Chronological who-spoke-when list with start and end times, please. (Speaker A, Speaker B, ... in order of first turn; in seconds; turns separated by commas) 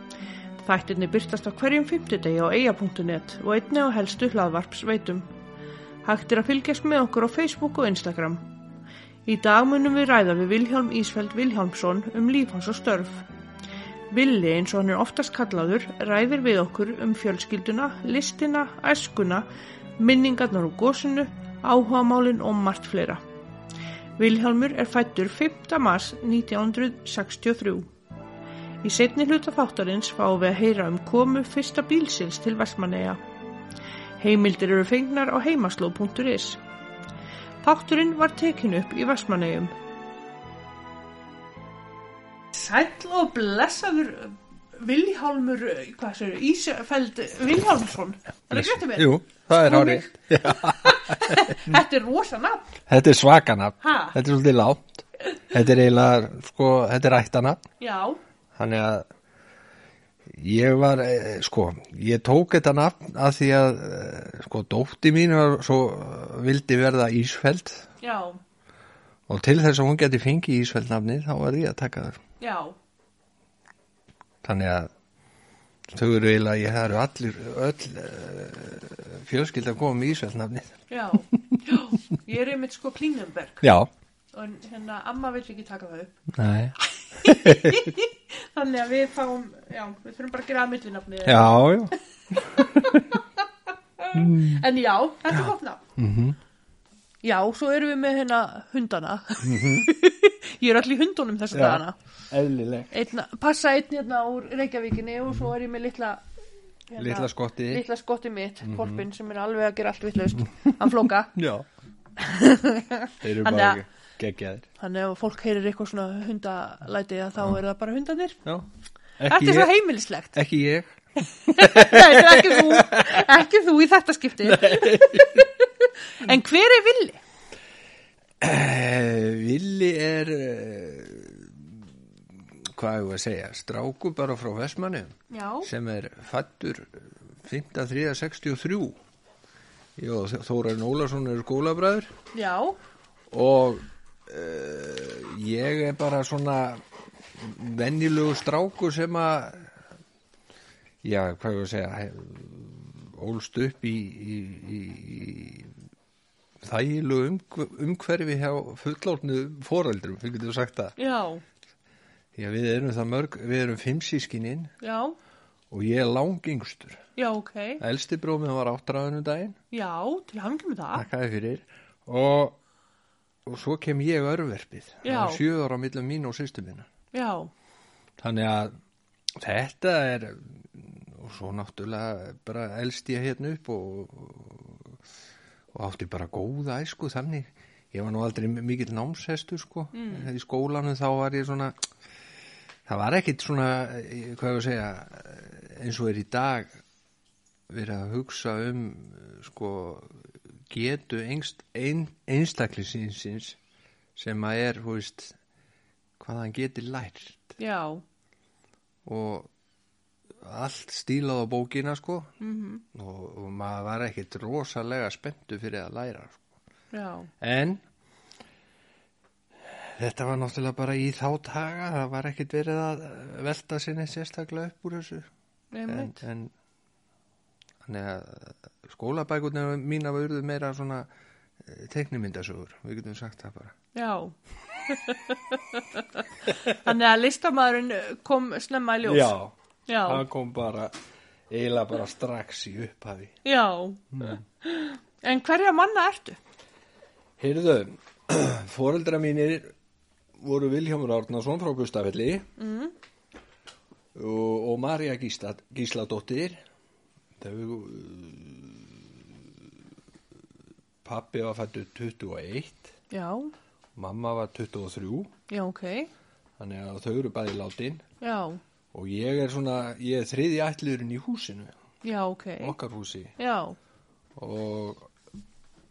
Speaker A: 0.6-5.3, Speaker A: 6.0-8.4, Speaker A: 9.2-13.2, Speaker A: 14.1-19.5, Speaker A: 20.0-23.2, Speaker A: 24.2-27.9, Speaker A: 28.8-33.2, Speaker A: 34.2-36.6, Speaker A: 37.6-39.7, Speaker A: 42.5-52.8, Speaker B: 48.5-51.8, Speaker B: 52.9-57.6, Speaker A: 53.8-54.2, Speaker A: 57.8-58.2, Speaker B: 58.5-59.1, Speaker B: 60.3-67.9, Speaker A: 68.0-68.4, Speaker B: 69.3-72.2, Speaker A: 72.4-72.8, Speaker B: 74.4-74.9, Speaker B: 75.9-80.8, Speaker A: 80.9-83.6, Speaker B: 81.3-81.6, Speaker B: 83.6-83.9, Speaker A: 84.3-86.1, Speaker B: 86.3-88.0, Speaker A: 87.2-93.5, Speaker B: 91.2-93.1, Speaker A: 94.0-95.8, Speaker B: 94.1-94.6, Speaker B: 95.3-96.4, Speaker A: 97.2-102.0, Speaker B: 99.4-99.9, Speaker B: 101.5-103.0, Speaker A: 102.9-106.2, Speaker A: 106.9-111.3, Speaker B: 107.0-107.8, Speaker B: 108.6-109.0, Speaker B: 111.3-111.6, Speaker A: 112.2-113.8, Speaker B: 113.2-114.7, Speaker A: 114.8-118.4, Speaker B: 119.2-119.7, Speaker A: 119.2-120.4, Speaker B: 120.3-123.3, Speaker A: 121.5-127.2, Speaker B: 124.4-125.5, Speaker B: 128.4-139.0, Speaker A: 135.3-135.7, Speaker B: 140.0-142.1, Speaker A: 142.3-142.8, Speaker B: 143.3-146.8, Speaker B: 147.4-149.7, Speaker B: 151.0-155.7, Speaker B: 156.6-161.0, Speaker A: 161.0-161.4, Speaker B: 162.3-164.7, Speaker A: 164.8-165.2, Speaker B: 165.7-167.0, Speaker A: 167.2-167.8, Speaker B: 167.8-169.6, Speaker A: 169.7-171.1, Speaker B: 170.9-172.6, Speaker B: 173.5-176.9, Speaker A: 175.0-175.4, Speaker A: 177.1-177.5, Speaker B: 178.2-178.7, Speaker B: 179.4-185.0, Speaker B: 185.7-191.8, Speaker A: 189.9-190.3, Speaker B: 192.9-196.8, Speaker B: 197.7-203.6, Speaker B: 204.2-205.4, Speaker B: 206.2-207.6, Speaker A: 207.6-208.0, Speaker B: 209.1-209.5, Speaker B: 210.4-212.3, Speaker A: 212.4-212.8, Speaker B: 212.9-216.4, Speaker A: 216.9-217.3, Speaker B: 217.4-217.8, Speaker B: 219.7-225.3, Speaker A: 225.7-226.2, Speaker B: 225.9-226.5, Speaker B: 227.8-231.1, Speaker B: 231.6-233.8, Speaker A: 233.9-239.3, Speaker B: 236.5-236.7, Speaker B: 239.1-240.9, Speaker A: 239.9-240.2, Speaker B: 241.5-243.4, Speaker A: 243.4-246.4, Speaker B: 244.1-244.4, Speaker B: 247.4-249.7, Speaker B: 250.4-252.5, Speaker A: 252.6-252.9, Speaker B: 254.2-256.6, Speaker B: 257.4-259.2, Speaker B: 261.0-263.0, Speaker A: 263.1-263.5, Speaker B: 263.9-265.3, Speaker A: 265.5-266.1, Speaker B: 266.6-268.1, Speaker A: 268.2-268.6, Speaker B: 268.9-271.7, Speaker A: 272.0-272.8, Speaker B: 272.6-273.4, Speaker A: 273.4-273.8, Speaker B: 274.4-275.1